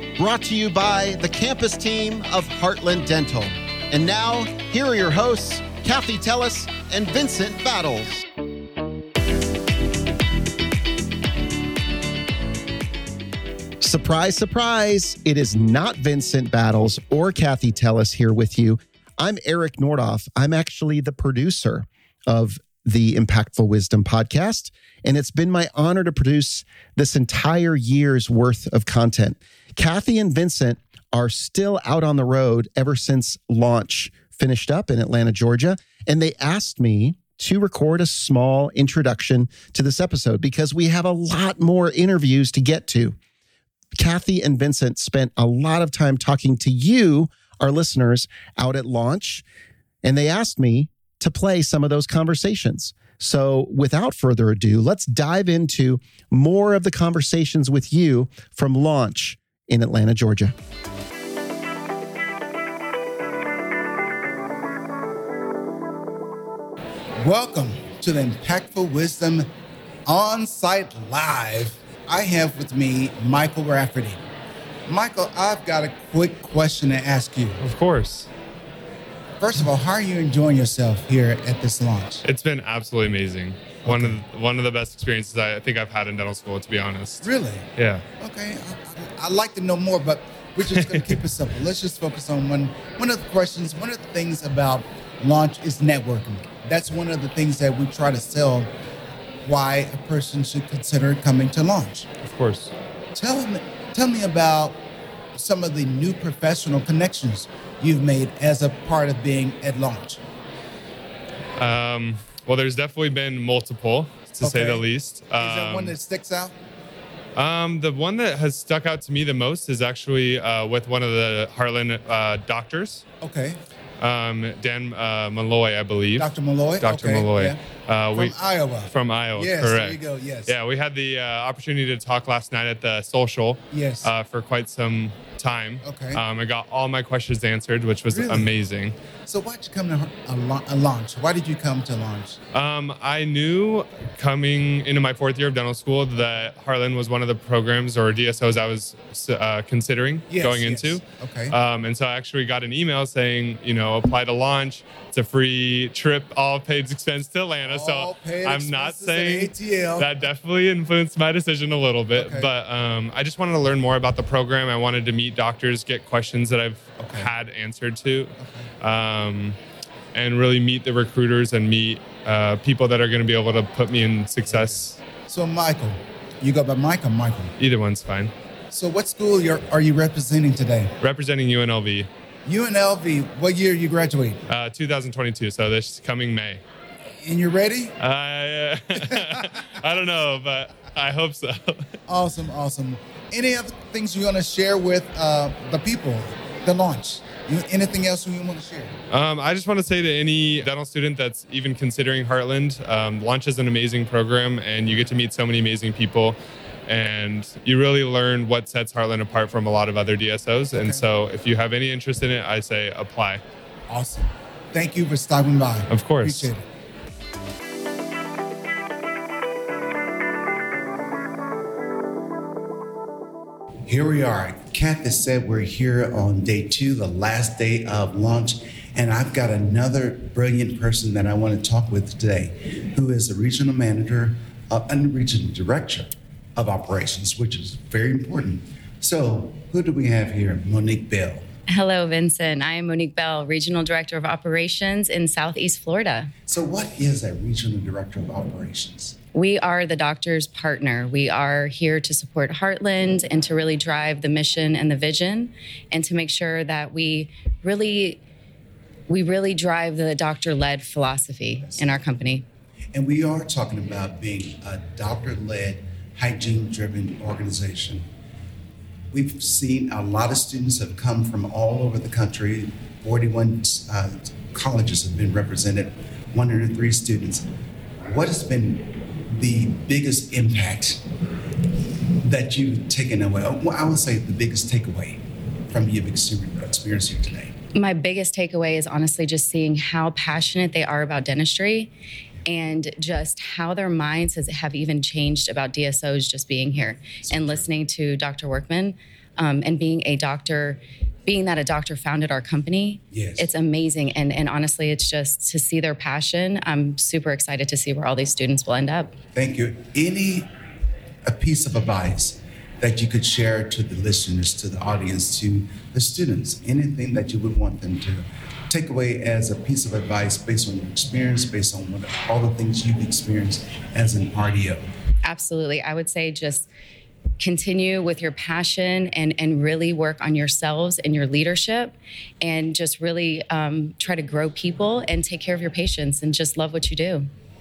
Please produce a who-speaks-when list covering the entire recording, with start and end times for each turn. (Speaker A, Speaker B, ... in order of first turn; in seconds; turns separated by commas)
Speaker A: 0.2-8.2, Speaker A: 13.8-43.2, Speaker A: 44.0-49.4, Speaker A: 50.0-60.5, Speaker B: 67.2-69.5, Speaker B: 70.1-74.2, Speaker B: 74.9-77.6, Speaker C: 77.6-78.3, Speaker B: 79.4-82.2, Speaker C: 82.2-88.0, Speaker B: 83.8-84.2, Speaker B: 87.2-98.7, Speaker C: 90.7-91.2, Speaker B: 99.4-102.1, Speaker C: 102.2-102.7, Speaker B: 103.1-104.8, Speaker B: 105.3-110.2, Speaker C: 111.6-116.0, Speaker B: 114.3-114.8, Speaker B: 115.4-116.6, Speaker C: 117.4-123.0, Speaker B: 123.2-123.6, Speaker C: 124.0-138.9, Speaker B: 126.2-127.6, Speaker B: 128.1-130.6, Speaker B: 133.7-134.1, Speaker B: 135.8-136.2, Speaker B: 138.1-138.5, Speaker B: 139.3-142.4, Speaker C: 142.5-169.6, Speaker B: 150.3-151.6, Speaker B: 157.7-160.2, Speaker B: 162.1-162.5, Speaker B: 167.0-167.3, Speaker B: 168.4-168.7, Speaker C: 170.1-175.0, Speaker B: 174.5-177.5, Speaker C: 177.6-178.3, Speaker B: 178.7-180.9, Speaker C: 181.0-182.1, Speaker B: 182.4-184.4, Speaker C: 184.5-186.6, Speaker B: 187.2-188.0, Speaker C: 188.0-191.9, Speaker B: 192.1-198.9, Speaker C: 199.1-213.4, Speaker B: 210.7-211.0, Speaker B: 213.9-216.7, Speaker C: 215.9-216.5, Speaker B: 223.9-241.4, Speaker D: 241.7-246.3, Speaker B: 246.5-249.2, Speaker D: 249.3-258.2, Speaker D: 259.1-262.4, Speaker B: 262.9-268.1, Speaker B: 269.1-277.5, Speaker B: 278.1-281.0, Speaker B: 282.2-287.5, Speaker D: 287.8-291.9, Speaker D: 292.5-309.1, Speaker B: 297.2-297.7, Speaker B: 303.1-303.5, Speaker B: 309.4-310.5, Speaker B: 311.3-324.9, Speaker D: 325.2-326.7, Speaker D: 327.4-337.3